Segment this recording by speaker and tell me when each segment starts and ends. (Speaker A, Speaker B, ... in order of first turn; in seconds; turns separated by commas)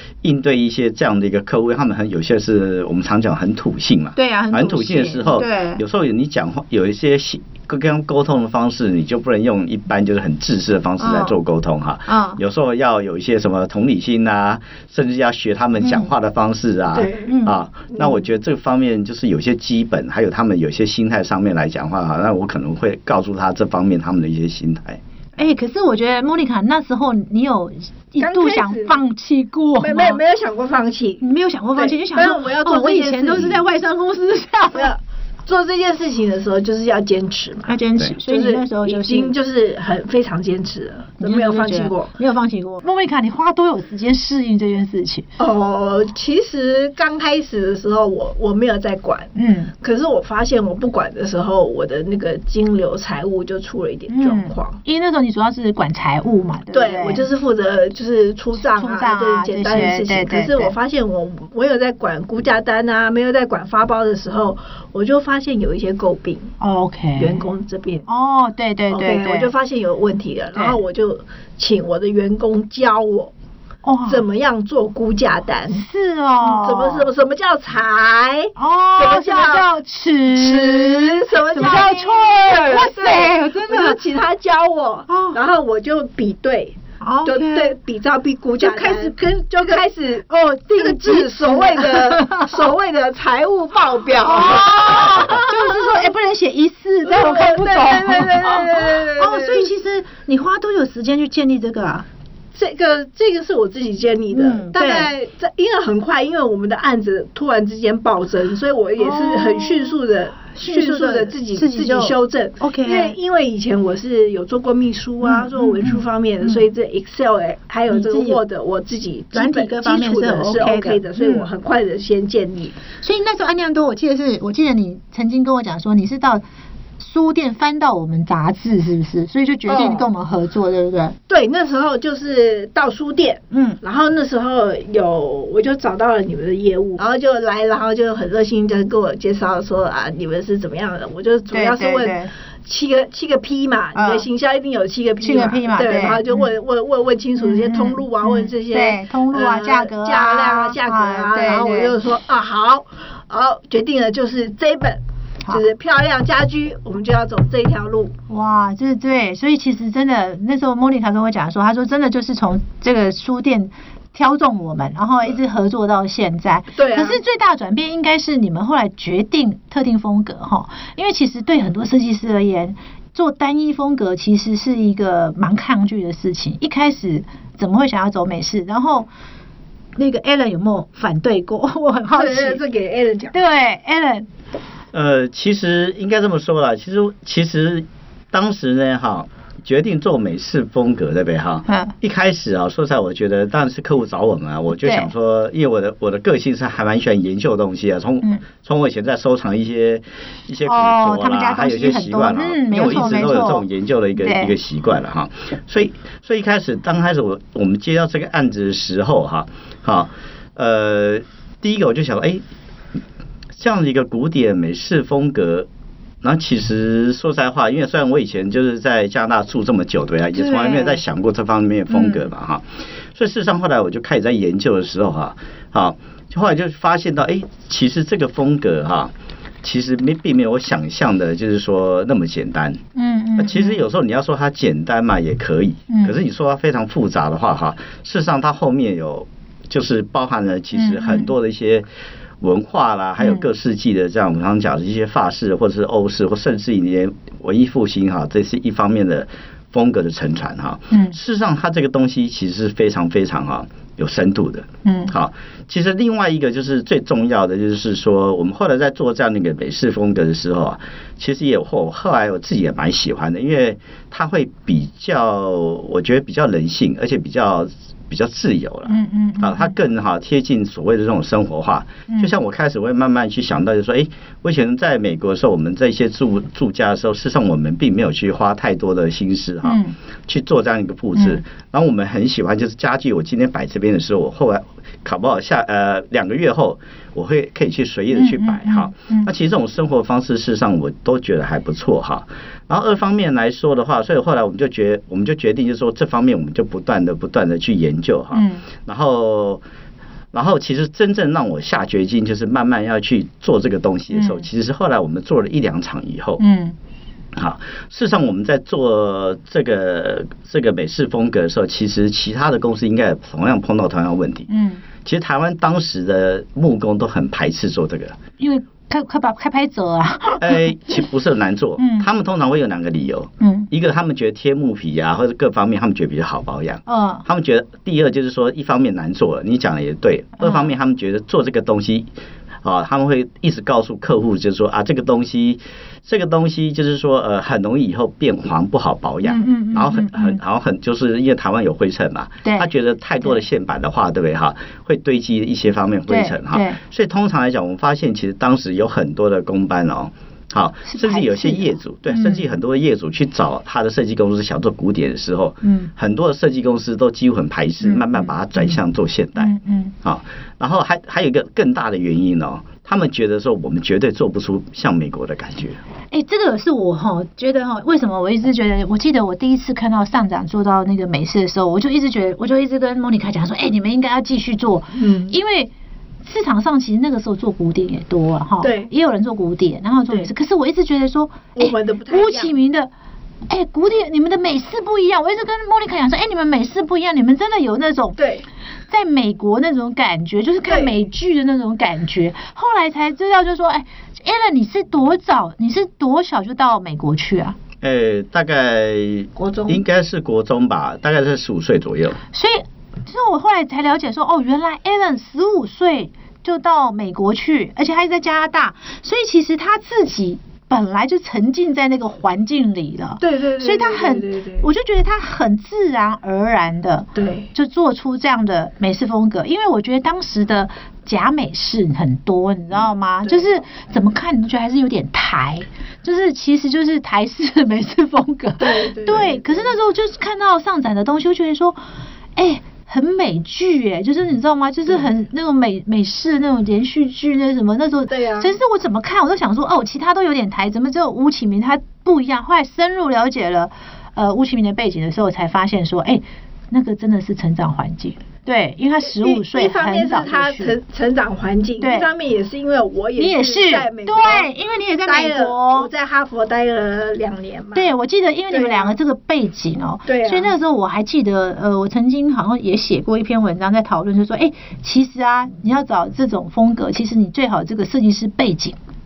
Speaker A: 0.2-25.0, Speaker B: 4.2-5.8, Speaker B: 11.0-11.4, Speaker B: 12.1-12.4, Speaker B: 15.8-16.1, Speaker C: 16.9-17.3, Speaker B: 17.2-17.6, Speaker C: 17.9-18.2, Speaker B: 25.4-30.2, Speaker C: 28.2-29.0, Speaker C: 29.8-31.2, Speaker B: 31.2-34.9, Speaker C: 31.8-33.5, Speaker C: 34.7-37.7, Speaker B: 37.7-39.3, Speaker C: 38.2-42.1, Speaker B: 41.2-45.2, Speaker C: 45.4-54.8, Speaker B: 49.3-49.7, Speaker B: 54.1-57.2, Speaker C: 56.7-66.5, Speaker B: 58.5-60.7, Speaker B: 66.6-67.5, Speaker C: 67.2-68.0, Speaker B: 68.1-69.5, Speaker C: 68.9-73.3, Speaker B: 73.8-74.2, Speaker C: 74.1-75.8, Speaker B: 75.7-77.1, Speaker C: 76.4-79.7, Speaker B: 78.5-84.0, Speaker C: 80.3-96.1, Speaker B: 85.1-85.4, Speaker B: 87.0-87.7, Speaker B: 88.6-89.1, Speaker B: 90.3-92.6, Speaker B: 94.2-102.0, Speaker C: 97.0-99.7, Speaker C: 102.5-122.8, Speaker B: 104.3-105.1, Speaker B: 109.0-110.0, Speaker B: 110.5-113.1, Speaker B: 115.2-116.7, Speaker B: 117.9-118.4, Speaker B: 119.3-121.5, Speaker B: 123.0-126.4, Speaker B: 127.0-131.2, Speaker C: 129.7-130.1, Speaker C: 131.3-158.1, Speaker B: 133.5-133.8, Speaker B: 141.5-142.3, Speaker B: 143.9-144.2, Speaker B: 145.2-146.5, Speaker B: 147.4-151.9, Speaker B: 158.3-179.1, Speaker C: 166.7-167.2, Speaker B: 179.9-182.6, Speaker C: 182.1-183.3, Speaker B: 183.3-184.3, Speaker A: 184.9-212.4, Speaker B: 191.7-191.9, Speaker B: 194.8-195.1, Speaker B: 200.6-203.7, Speaker B: 204.2-204.5, Speaker A: 213.5-215.7, Speaker A: 216.2-229.1, Speaker B: 220.3-221.0, Speaker B: 221.9-222.3, Speaker A: 229.6-232.8, Speaker B: 232.9-233.8, Speaker A: 233.4-241.8, Speaker B: 235.9-236.2, Speaker B: 240.7-241.3, Speaker A: 242.4-299.6, Speaker B: 243.2-243.4, Speaker B: 250.9-251.2, Speaker B: 254.8-255.1, Speaker B: 268.9-269.7, Speaker B: 279.6-279.9, Speaker B: 288.1-289.3, Speaker B: 298.3-298.6, Speaker A: 300.3-306.4, Speaker B: 304.1-304.4, Speaker B: 306.4-306.8, Speaker A: 307.3-314.5, Speaker B: 314.5-314.8, Speaker A: 315.0-318.2, Speaker B: 318.4-321.0, Speaker A: 320.4-332.1, Speaker B: 321.8-322.1, Speaker B: 323.4-323.7, Speaker B: 326.9-327.2, Speaker B: 330.4-330.7, Speaker A: 332.6-365.8, Speaker B: 339.2-340.4, Speaker B: 346.1-346.8, Speaker B: 350.9-352.4, Speaker B: 355.6-355.9, Speaker B: 357.8-358.8, Speaker B: 359.4-359.9, Speaker B: 366.1-375.7, Speaker C: 374.9-375.3, Speaker B: 376.2-382.9, Speaker C: 378.6-378.9, Speaker C: 381.5-382.5, Speaker B: 383.5-388.2, Speaker C: 388.2-388.4, Speaker B: 388.9-397.6, Speaker C: 390.6-390.9, Speaker A: 397.8-402.2, Speaker C: 399.4-399.8, Speaker B: 402.3-431.8, Speaker C: 413.2-414.7, Speaker C: 417.1-417.5, Speaker C: 428.6-429.8, Speaker B: 432.4-450.8, Speaker C: 438.1-438.5, Speaker C: 449.0-454.5, Speaker B: 451.8-452.1, Speaker B: 453.2-455.9, Speaker C: 455.0-457.9, Speaker B: 457.7-468.8, Speaker C: 458.5-458.9, Speaker C: 460.1-460.5